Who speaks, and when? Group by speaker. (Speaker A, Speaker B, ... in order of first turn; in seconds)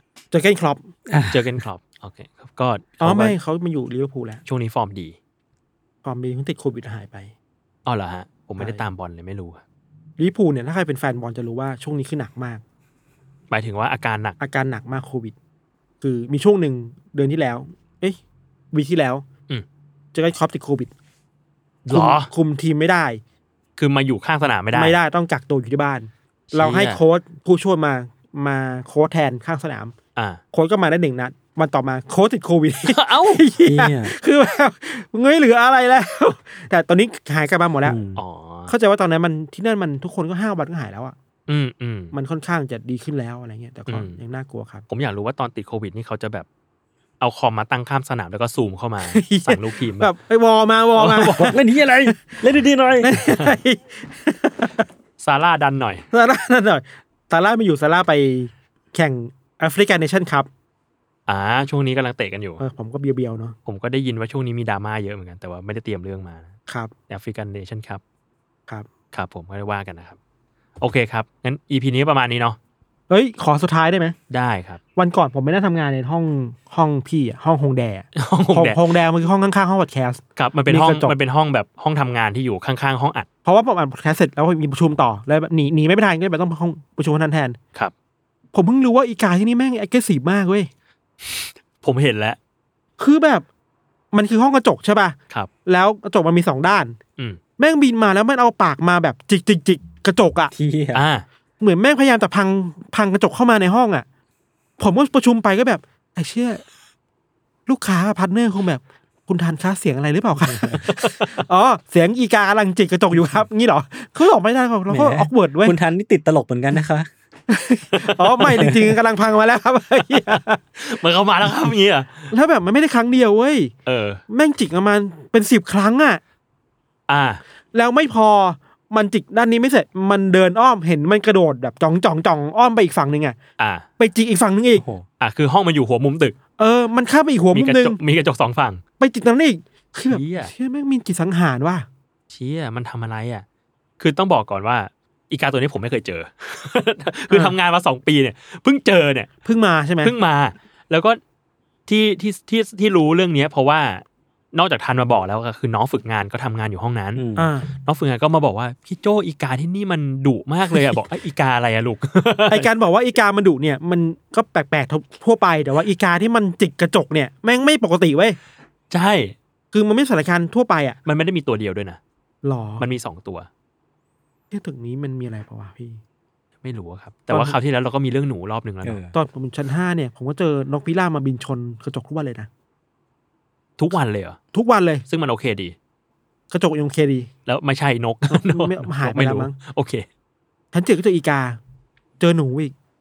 Speaker A: 0.3-0.9, 3.0-4.4, 6.0-7.3, 10.2-12.6, 14.4-15.3, 16.0-18.2, 18.7-19.2, 20.1-20.9, 21.9-23.2, 24.7-29.9, 30.5-38.0, 38.7-41.1, 42.1-44.8, 49.1-51.5, 52.0-52.4, 53.0-54.8, 56.1-60.5, 62.6-63.5, 73.1-74.1, 75.0-81.1, 83.4-87.6, 88.5-90.7, 93.0-93.5, 94.1-97.0, 97.6-100.5, 101.6-104.0, 104.8-106.6, 107.7-115.8, 117.5-120.6, 122.3-123.7, 124.3-126.2, 127.7-133.4, 134.0-134.8, 136.6-138.0, 139.0-141.8, 149.4-150.1, 157.3-157.7, 162.5-168.4, 169.7-171.0, 172.4-172.9, 174.5-176.0, 177.3-177.5, 179.1-182.5, 184.5-185.0, 186.5-187.3, 188.3-189.5, 190.7-191.6, 192.2-192.7
Speaker B: 1.1-1.6, 33.6-34.1, 37.8-38.2, 51.4-53.1, 100.5-101.0, 110.5-110.8, 114.9-117.1, 134.8-135.0, 157.1-157.5, 178.8-179.1
Speaker C: 1.3-3.4, 4.5-5.2, 7.8-9.6, 13.5-14.4, 21.9-22.3, 23.8-25.0, 26.5-27.0, 32.8-33.4, 38.1-38.7, 41.5-42.1, 43.9-44.2, 44.9-46.5, 47.2-50.1, 51.0-51.5, 55.2-56.0, 61.3-62.6, 63.6-66.5, 67.1-68.0, 69.1-70.2, 70.8-72.6, 74.3-74.8, 78.2-78.8, 80.3-83.3, 91.2-92.4, 100.9-101.2, 110.8-111.3, 118.0-118.7, 120.8-122.3, 123.8-124.2, 127.1-127.4, 133.6-133.8, 135.2-136.3, 137.5-138.8, 140.1-140.5, 142.3-143.4, 144.0-149.3, 150.0-151.2, 151.9-162.7, 168.9-169.3, 171.0-172.0, 172.8-173.5, 176.6-179.0, 183.8-184.4, 185.1-185.7, 187.5-190.0